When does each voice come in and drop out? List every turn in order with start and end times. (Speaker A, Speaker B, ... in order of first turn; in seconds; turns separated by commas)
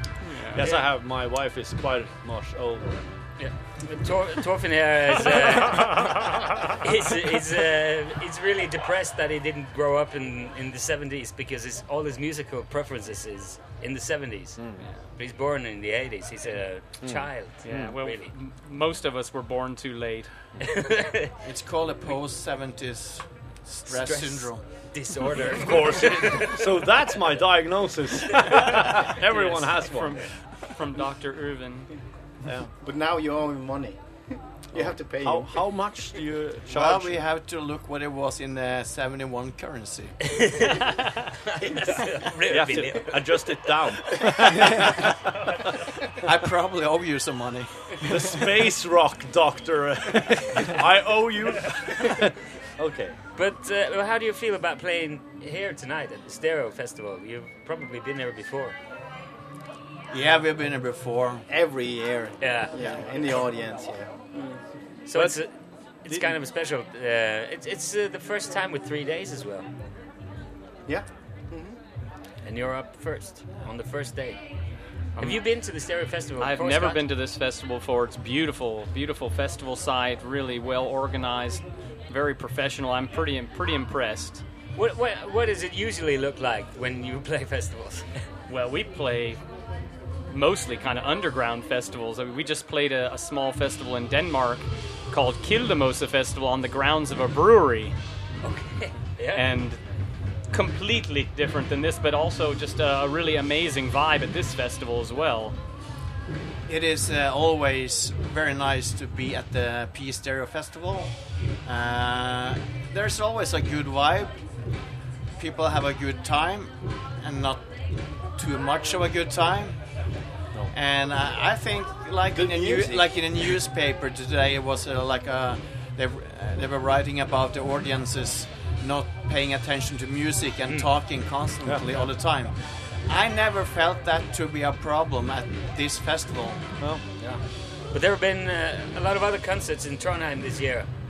Speaker A: 0.2-0.7, Speaker B: 0.5-3.1, Speaker C: 0.6-0.9, Speaker C: 3.4-14.6, Speaker B: 14.6-14.8, Speaker C: 15.2-18.3, Speaker B: 17.0-17.9, Speaker A: 17.6-20.3, Speaker C: 20.6-21.4, Speaker D: 21.4-24.6, Speaker C: 23.9-26.6, Speaker B: 25.4-30.2, Speaker A: 29.2-31.9, Speaker B: 32.5-32.7, Speaker E: 32.8-34.0, Speaker B: 34.7-37.3, Speaker E: 34.7-35.5, Speaker D: 36.7-40.2, Speaker C: 40.3-41.0, Speaker C: 41.5-43.7, Speaker B: 42.5-45.4, Speaker D: 46.2-48.1, Speaker B: 48.1-53.2, Speaker C: 53.4-58.8, Speaker D: 60.1-61.4, Speaker E: 61.5-64.5, Speaker C: 62.4-62.8, Speaker C: 65.1-65.5, Speaker B: 65.1-65.4, Speaker C: 66.0-69.7, Speaker B: 66.1-66.4, Speaker E: 70.9-71.8, Speaker C: 72.4-74.4, Speaker A: 75.2-75.5, Speaker C: 75.2-77.0, Speaker A: 76.4-84.4, Speaker C: 84.8-88.2, Speaker A: 88.5-89.4, Speaker A: 90.3-98.0, Speaker C: 98.4-99.5, Speaker A: 99.3-99.8, Speaker A: 100.5-105.6, Speaker D: 106.7-111.1, Speaker D: 111.7-114.4, Speaker D: 115.4-117.7, Speaker D: 118.4-119.8, Speaker D: 120.7-136.6, Speaker E: 122.3-123.2, Speaker B: 131.6-132.0, Speaker C: 137.2-140.9